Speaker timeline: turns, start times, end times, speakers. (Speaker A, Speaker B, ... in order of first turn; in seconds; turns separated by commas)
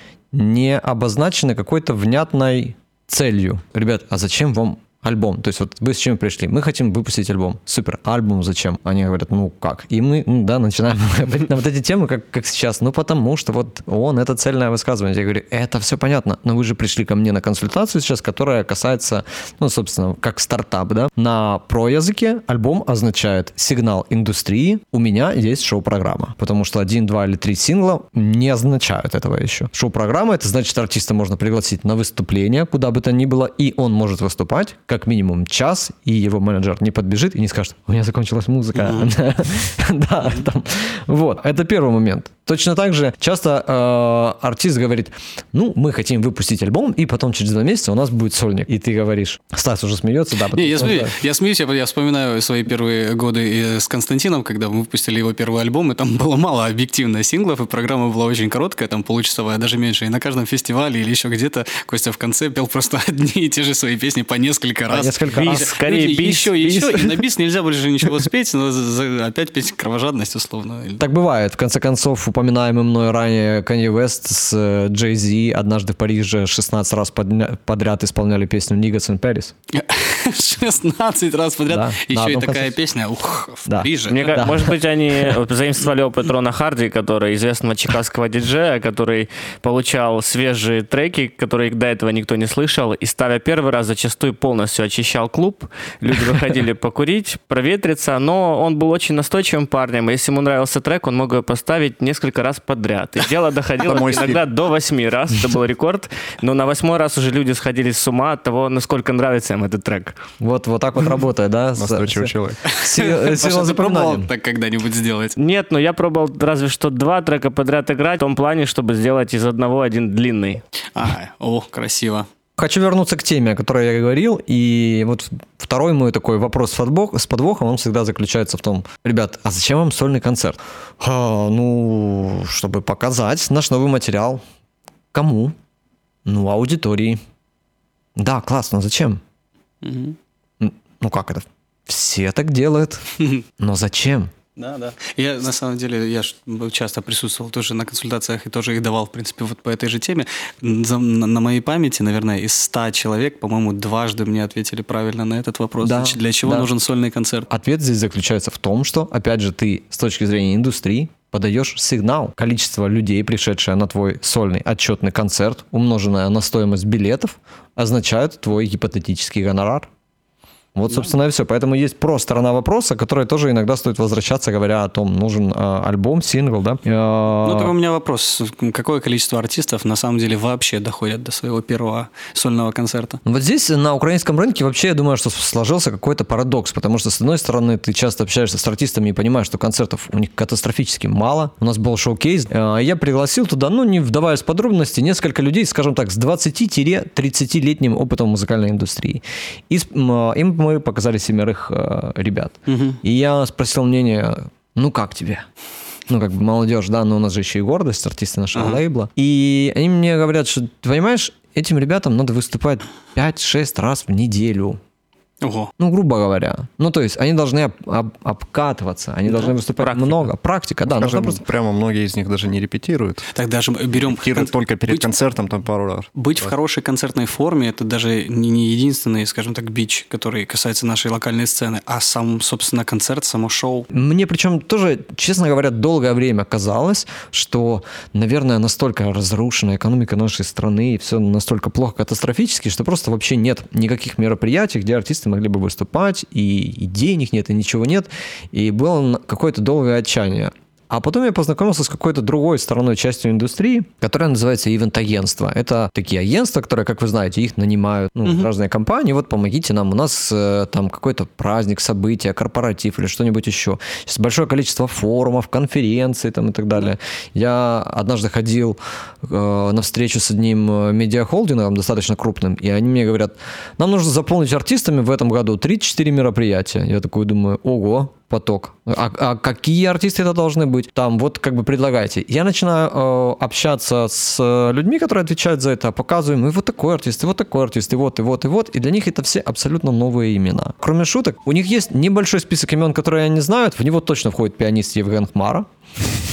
Speaker A: 0.3-51.1, Speaker B: 38.8-39.1, Speaker B: 50.5-71.0, Speaker A: 64.9-65.7, Speaker C: 65.4-66.9, Speaker A: 71.0-79.5, Speaker B: 79.7-84.4, Speaker A: 81.7-82.7, Speaker A: 83.7-84.7, Speaker C: 84.1-110.2, Speaker D: 103.8-104.4, Speaker A: 110.4-114.3, Speaker D: 111.8-112.6, Speaker B: 112.7-115.4, Speaker C: 115.4-120.6, Speaker B: 120.9-122.3, Speaker A: 122.6-134.4, Speaker A: 135.1-135.5, Speaker A: 136.2-137.2, Speaker A: 138.2-139.2, Speaker B: 139.8-140.2, Speaker A: 140.6-144.3, Speaker B: 144.6-157.5, Speaker A: 155.8-156.7, Speaker A: 157.5-169.9, Speaker A: 170.7-177.7, Speaker B: 177.4-183.2, Speaker A: 183.2-205.4, Speaker B: 202.7-203.0, Speaker A: 206.1-214.8, Speaker B: 208.5-208.8, Speaker B: 215.4-215.7, Speaker A: 215.8-221.4, Speaker B: 219.3-219.5, Speaker C: 219.8-220.3, Speaker D: 220.9-223.2, Speaker B: 223.3-225.1, Speaker D: 223.9-226.5, Speaker B: 226.1-233.9, Speaker A: 233.9-295.6, Speaker B: 258.2-258.5